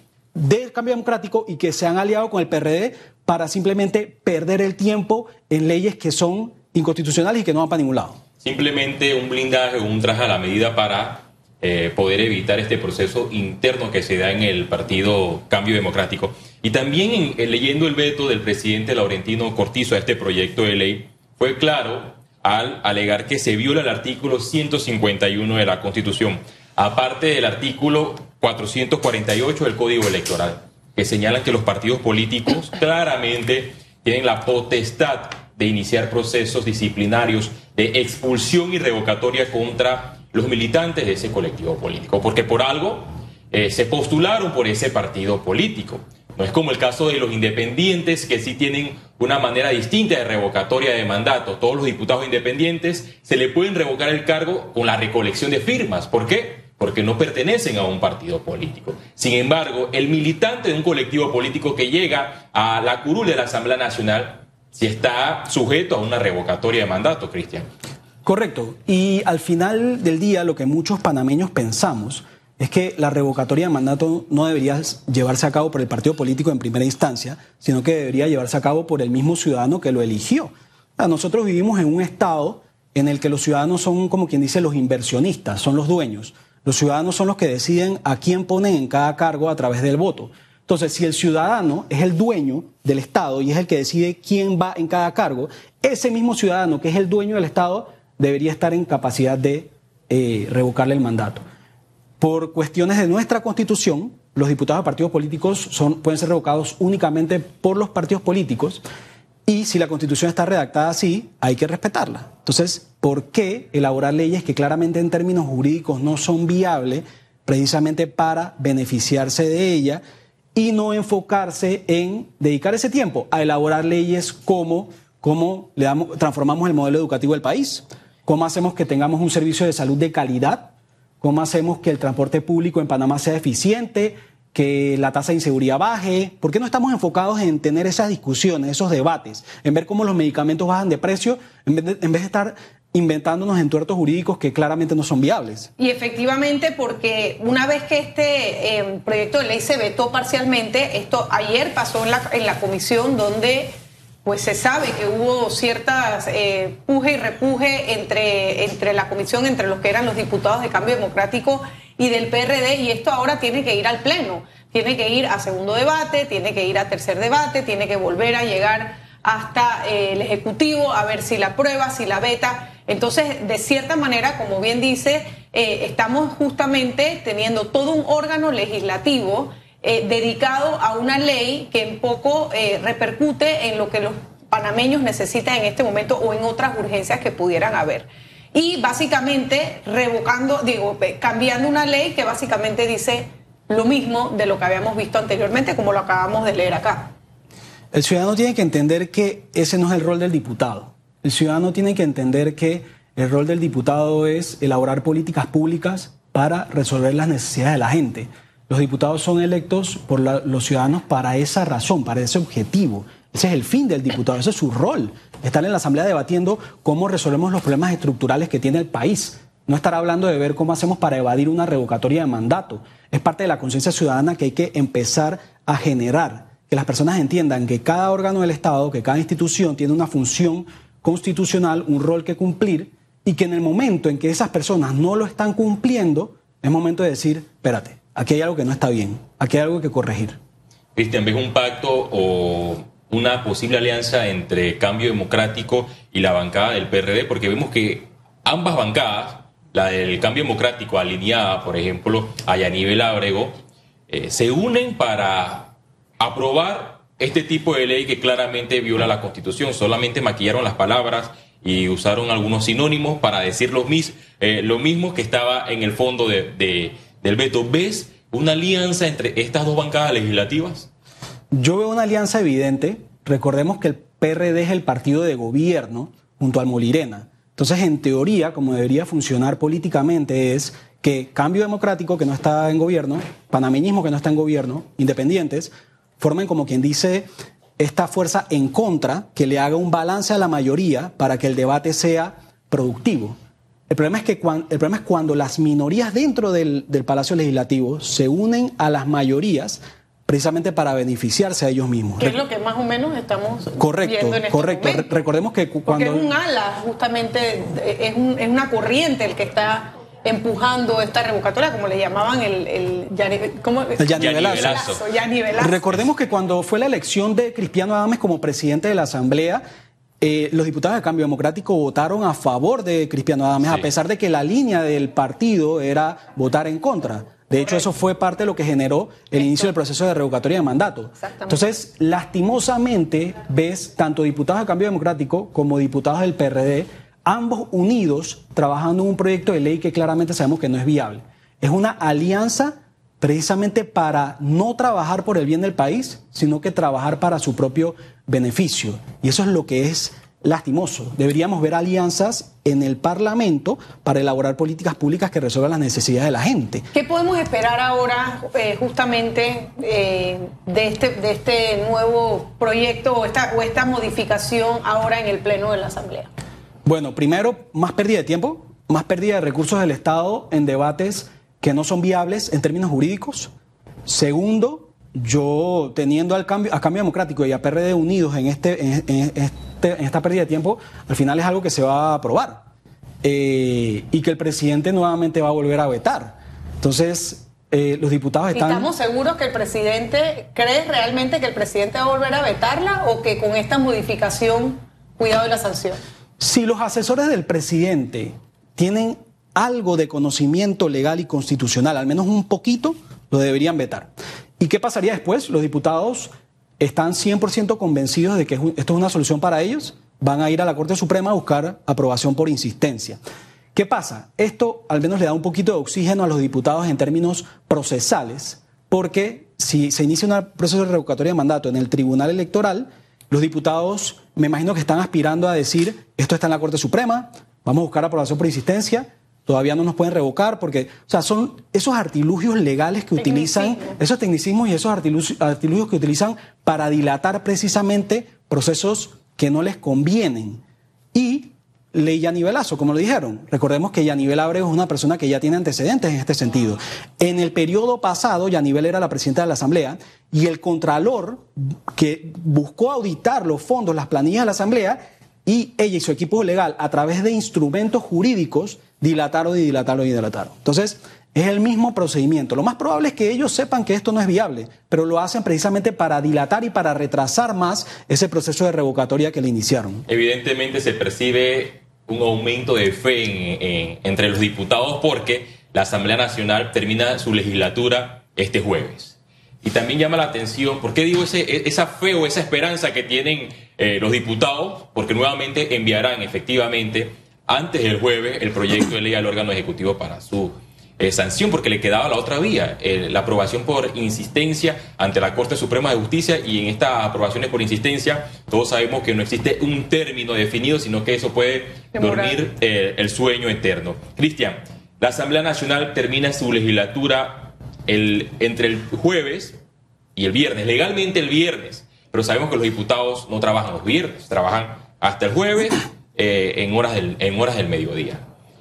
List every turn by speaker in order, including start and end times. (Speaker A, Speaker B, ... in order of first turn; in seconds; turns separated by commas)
Speaker A: 0.3-8.2, Speaker B: 8.4-67.7, Speaker A: 68.2-101.4, Speaker A: 102.2-108.8, Speaker A: 109.5-120.0, Speaker A: 120.5-145.7, Speaker C: 145.8-153.7, Speaker C: 154.2-197.1, Speaker A: 197.9-240.4, Speaker B: 240.9-253.6, Speaker B: 254.1-270.9, Speaker A: 271.5-287.3, Speaker A: 287.8-293.4, Speaker A: 293.9-302.4, Speaker C: 302.2-305.1, Speaker A: 303.8-306.3, Speaker C: 305.9-315.9, Speaker A: 314.0-314.8, Speaker B: 314.2-315.0, Speaker A: 315.6-319.6, Speaker A: 320.2-356.9, Speaker C: 329.4-329.7, Speaker C: 331.2-331.7, Speaker C: 356.9-366.3, Speaker A: 366.9-373.5, Speaker A: 374.1-382.6, Speaker A: 383.2-388.9, Speaker C: 388.5-396.0, Speaker A: 396.4-413.2, Speaker A: 413.7-440.6, Speaker C: 433.2-434.0, Speaker A: 441.1-470.1, Speaker B: 470.1-509.6, Speaker C: 501.9-502.4, Speaker B: 510.2-518.2